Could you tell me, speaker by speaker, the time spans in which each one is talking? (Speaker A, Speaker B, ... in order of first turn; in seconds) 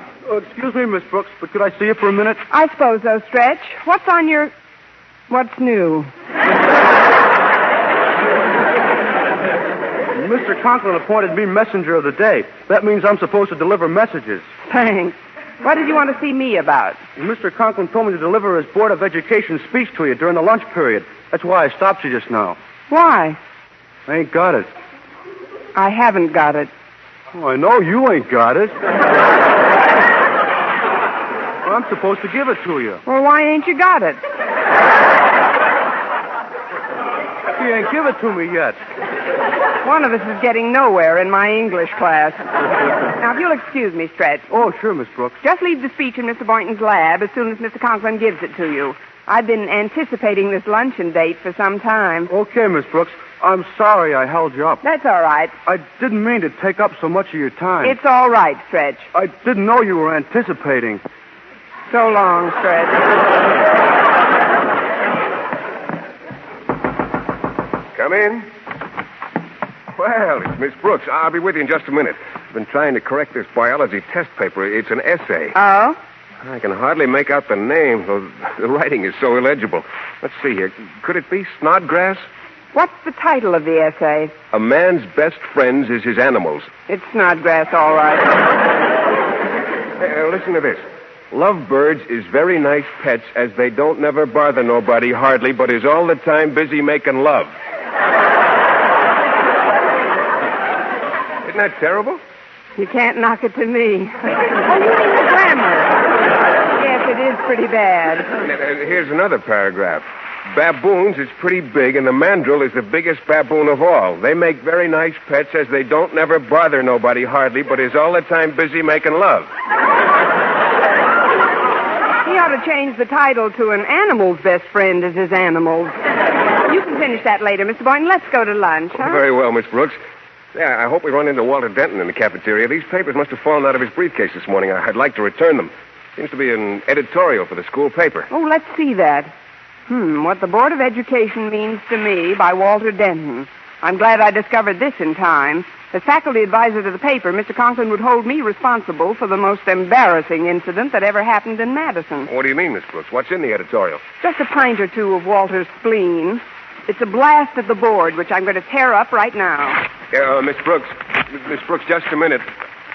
Speaker A: 0.2-2.4, 10.1-14.5, 17.2-22.6, 24.1-24.7, 27.3-28.8, 31.6-33.0, 37.6-38.8, 44.5-45.4, 52.3-54.8, 55.6-58.0, 59.1-61.0
Speaker B: 2.5-4.5, 5.3-6.1, 14.7-17.0, 22.9-23.4, 25.7-26.7, 33.0-34.2, 39.8-42.4, 43.2-44.5, 45.4-52.3, 54.8-55.5, 57.8-59.1, 61.9-63.1, 75.5-76.0, 82.7-84.3, 86.9-88.4, 102.8-106.0, 106.8-108.3, 122.2-126.0, 126.7-129.2, 138.3-139.3, 139.9-152.3, 154.2-159.8
Speaker C: 67.9-68.5, 70.0-75.5, 76.4-82.2, 84.5-86.7, 90.0-97.5, 101.4-102.2, 108.4-119.5, 128.9-130.0, 130.5-138.3, 152.3-154.0, 160.1-162.4